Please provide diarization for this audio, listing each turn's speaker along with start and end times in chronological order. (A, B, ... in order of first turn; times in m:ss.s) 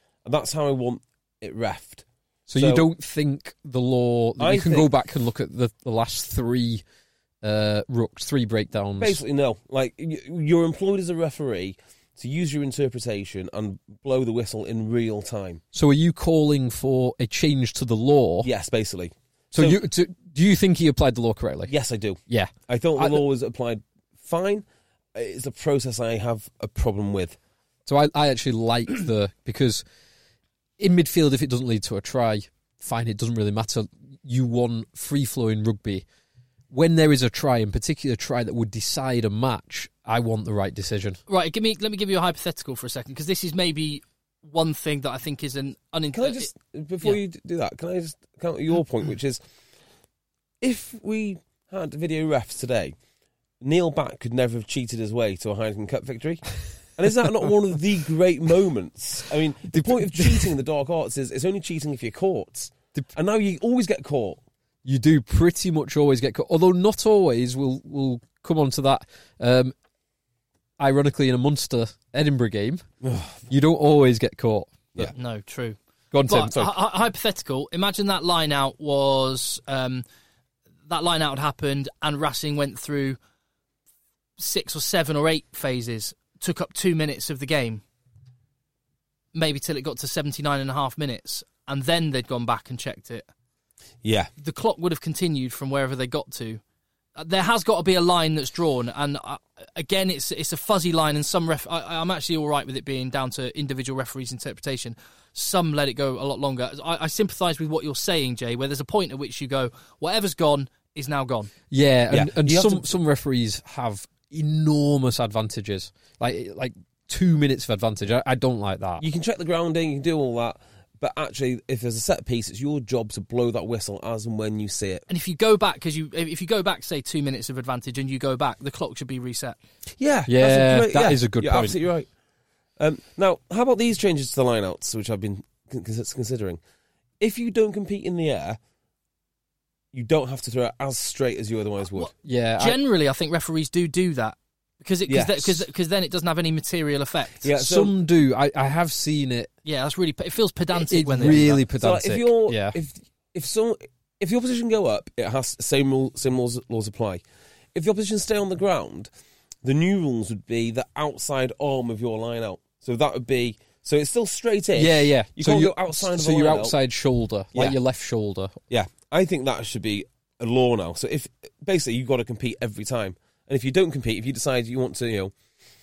0:00.2-0:02.8 A
0:02.5-0:06.8 B
0:04.4-0:04.9 A
0:07.4-0:09.2 B
0:09.0-0:15.6 A
0:15.7-0:18.5 B
0:18.4-0:19.8 A
0:19.5-0:21.7 B
0:21.7-0:24.6 A
0:22.3-0:23.2 B
0:25.1-0:27.4 A
0:27.8-0:29.8 B
0:30.8-0:36.0 B
0:36.7-0:41.2 B
0:41.3-0:46.5 C
0:46.1-0:49.4 A
0:50.6-0:52.9 A
0:53.6-1:04.4 A
0:59.7-1:00.5 B
1:04.8-1:09.7 B
1:10.8-1:12.8 B
1:13.0-1:13.4 A
1:13.5-1:15.1 B
1:15.1-1:20.0 C
1:16.1-1:16.6 B
1:20.9-1:23.2 C
1:24.4-1:27.8 C
1:29.3-1:33.3 C
1:34.0-1:34.3 A
1:34.4-1:36.6 C
1:37.2-1:51.5 C
1:51.7-1:59.0 B
1:52.1-1:52.9 A
1:59.0-2:05.0 A
2:05.1-2:09.6 C
2:10.0-2:12.1 A
2:10.3-2:11.8 B
2:12.8-2:16.6 A
2:17.2-2:18.6 A
2:19.9-2:22.1 A
2:21.9-2:27.4 C
2:22.2-2:22.8 B
2:25.1-2:25.6 A
2:27.4-2:27.9 A
2:27.6-2:29.5 B
2:29.6-2:31.6 C
2:30.7-2:32.8 B
2:31.2-2:37.2 A
2:37.7-2:39.1 A
2:39.6-2:46.8 A
2:44.7-2:48.6 B
2:48.7-2:55.3 A